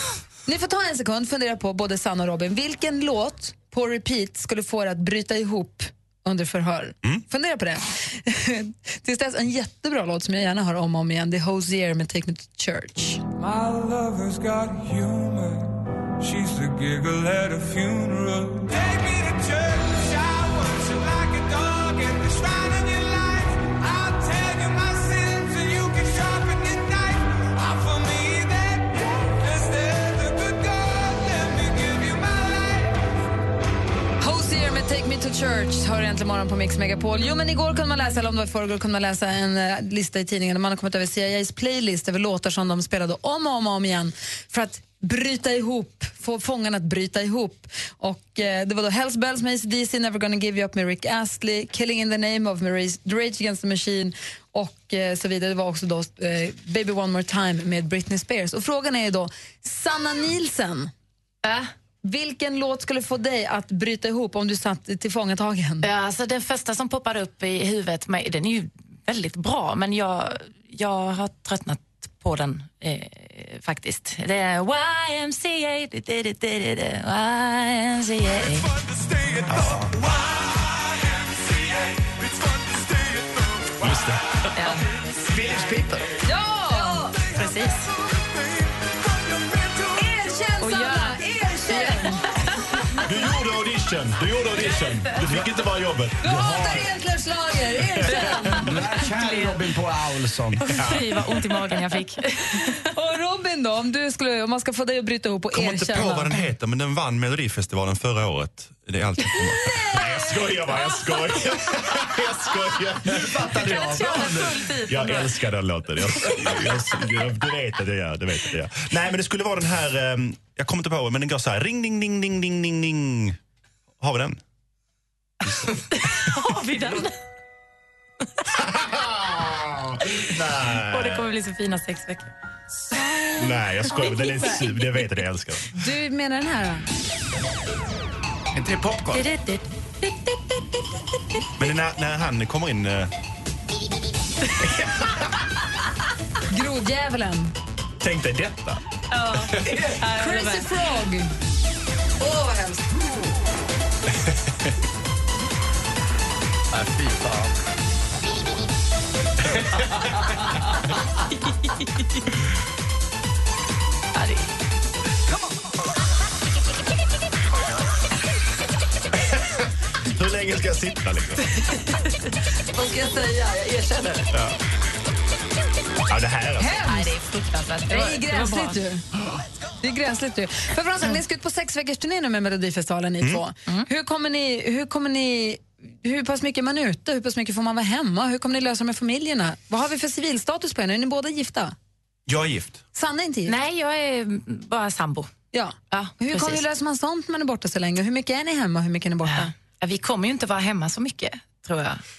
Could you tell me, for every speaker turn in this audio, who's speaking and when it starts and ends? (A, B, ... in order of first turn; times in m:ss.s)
0:00.5-0:13.2 A
0:13.4-0:33.0 B
0:34.2-1:00.9 A
1:01.4-1:01.7 C
1:02.0-1:05.9 A
1:05.8-1:18.7 C
1:18.8-1:24.0 B
1:19.5-1:19.8 D
1:19.5-1:19.9 E
1:23.8-1:24.8 E
1:24.6-1:24.8 C
1:25.3-1:26.1 D
1:26.2-1:27.2 A
1:27.3-1:30.5 B
1:27.3-1:27.9 C
1:29.9-1:32.3 A
1:30.6-1:32.8 C
1:33.0-1:36.7 E
1:36.2-1:38.6 A
1:36.3-1:36.8 D
1:38.0-1:38.7 E
1:38.6-1:40.6 D
1:39.2-1:39.6 C
1:40.6-1:42.8 C
1:40.7-1:41.1 E
1:42.9-1:46.5 A
1:45.5-2:03.4 E
1:49.5-1:51.0 A
1:53.1-1:54.5 D
1:53.5-1:55.4 C
2:04.0-2:04.4 E
2:06.0-2:07.2 C
2:08.6-2:11.3 E
2:10.7-2:12.3 C
2:13.4-2:15.7 E
2:13.9-2:14.6 A
2:14.1-2:14.6 C
2:15.8-2:16.9 A
2:18.5-2:19.2 D
2:19.1-2:20.4 C
2:21.6-2:23.1 E
2:26.5-2:27.5 A
2:28.0-2:28.8 E
2:29.1-2:30.7 C
2:29.4-2:29.8 E
2:30.0-2:31.3 A
2:32.2-2:32.9 A
2:44.2-2:44.5 C
2:49.3-2:51.5 E
2:52.7-2:54.3 A
2:56.1-2:56.8 E
2:56.6-2:57.1 A
2:56.8-2:58.8 C
2:57.9-2:59.0 A
2:59.8-3:11.8 A
3:12.3-3:12.8 E
3:13.0-3:13.5 A
3:13.5-3:15.3 C
3:15.5-3:19.5 A
3:15.9-3:16.6 C
3:19.3-3:22.0 C